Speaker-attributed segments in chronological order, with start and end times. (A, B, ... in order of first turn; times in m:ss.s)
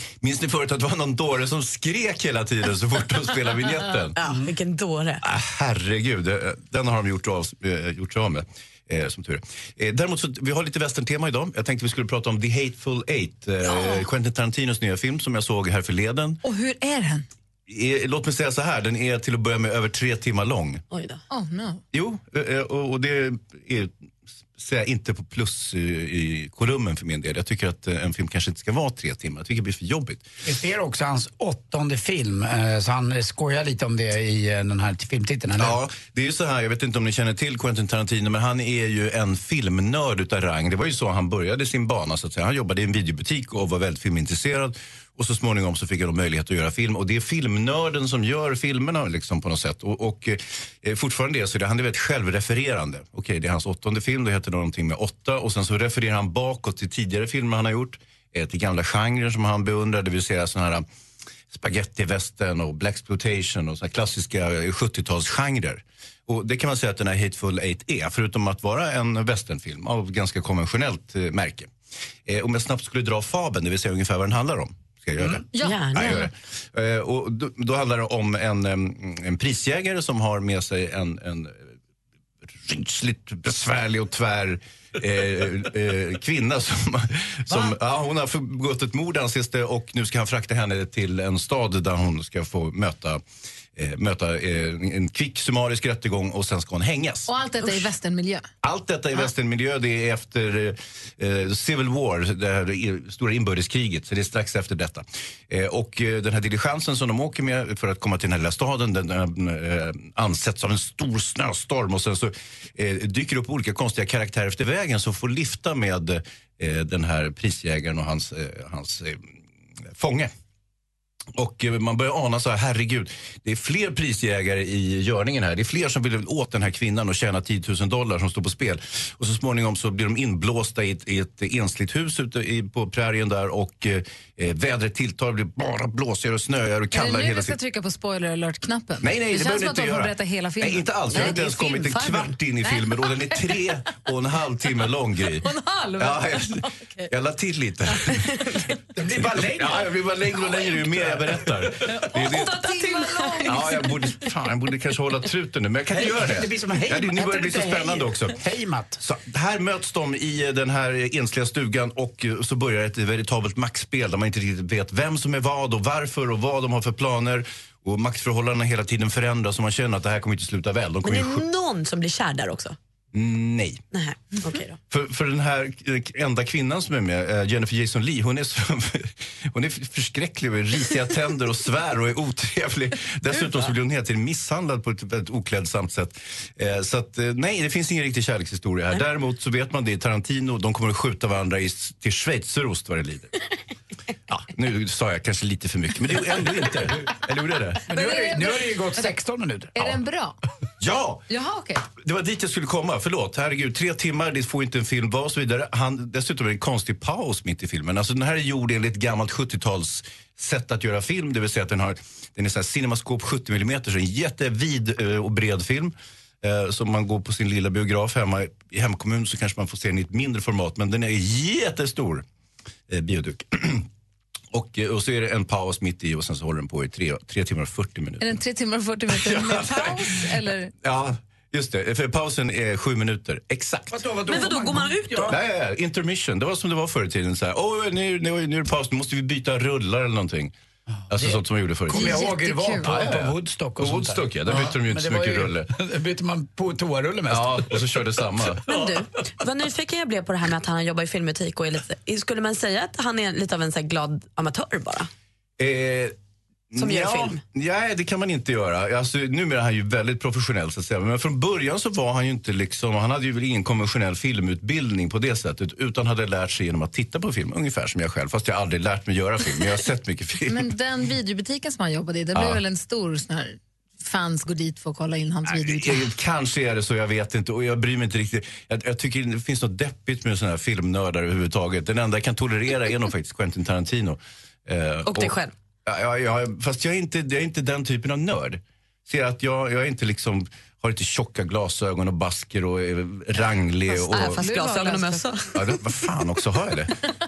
0:00.2-0:04.2 A
0:04.2-0:05.2 B
0:05.2-0:16.4 A
0:13.6-0:14.1 B
0:16.4-0:17.3 C
0:17.7-0:20.8 A
0:20.9-0:21.2 B
0:21.3-0:21.8 C
0:21.9-0:23.9 A
0:24.6-0:30.2 A
0:30.4-0:35.8 D
0:35.6-1:00.8 A
1:01.5-1:11.7 A
1:12.2-1:21.6 A
1:15.5-1:15.8 C
1:15.6-1:16.3 B
1:22.6-1:33.2 A
1:33.8-1:37.3 A
1:37.3-1:38.4 C
1:38.6-1:59.3 A
1:59.9-2:00.3 A
2:01.4-2:17.6 A
2:16.9-2:23.4 C
2:19.0-2:28.5 A
2:21.1-2:21.5 B
2:25.4-2:27.1 C
2:29.0-2:31.5 D
2:29.0-2:32.6 A
2:31.9-2:33.9 C
2:32.7-2:33.5 B
2:33.4-2:38.4 A
2:35.9-2:39.0 D
2:39.0-2:51.4 A
2:51.0-2:52.8 B
2:53.1-2:53.8 A
2:53.9-2:54.8 B
2:54.9-3:13.4 A
3:14.3-3:17.8 A
3:17.9-3:20.0 D
3:17.9-3:19.1 C
3:19.7-3:20.4 C
3:20.8-3:21.2 A
3:21.3-3:21.8 C
3:22.0-3:42.2 A
3:42.9-3:43.9 A
3:44.5-3:48.4 A
3:48.2-3:50.7 C
3:49.1-3:50.0 A
3:50.8-3:54.0 A
3:53.9-3:55.4 D
3:54.3-3:55.4 B
3:55.2-4:00.5 A
4:01.0-4:08.0 D
4:01.1-4:02.2 A
4:01.9-4:02.9 C
4:02.8-4:05.7 A
4:07.3-4:08.9 A
4:08.6-4:15.1 B
4:15.6-4:16.1 A
4:16.7-4:30.7 A
4:16.8-4:17.4 B
4:30.5-4:36.0 C
4:32.3-4:32.6 A
4:35.5-4:54.4 A
4:45.0-4:45.5 B
4:54.0-4:55.4 C
4:54.1-4:55.6 B
4:55.5-4:57.0 A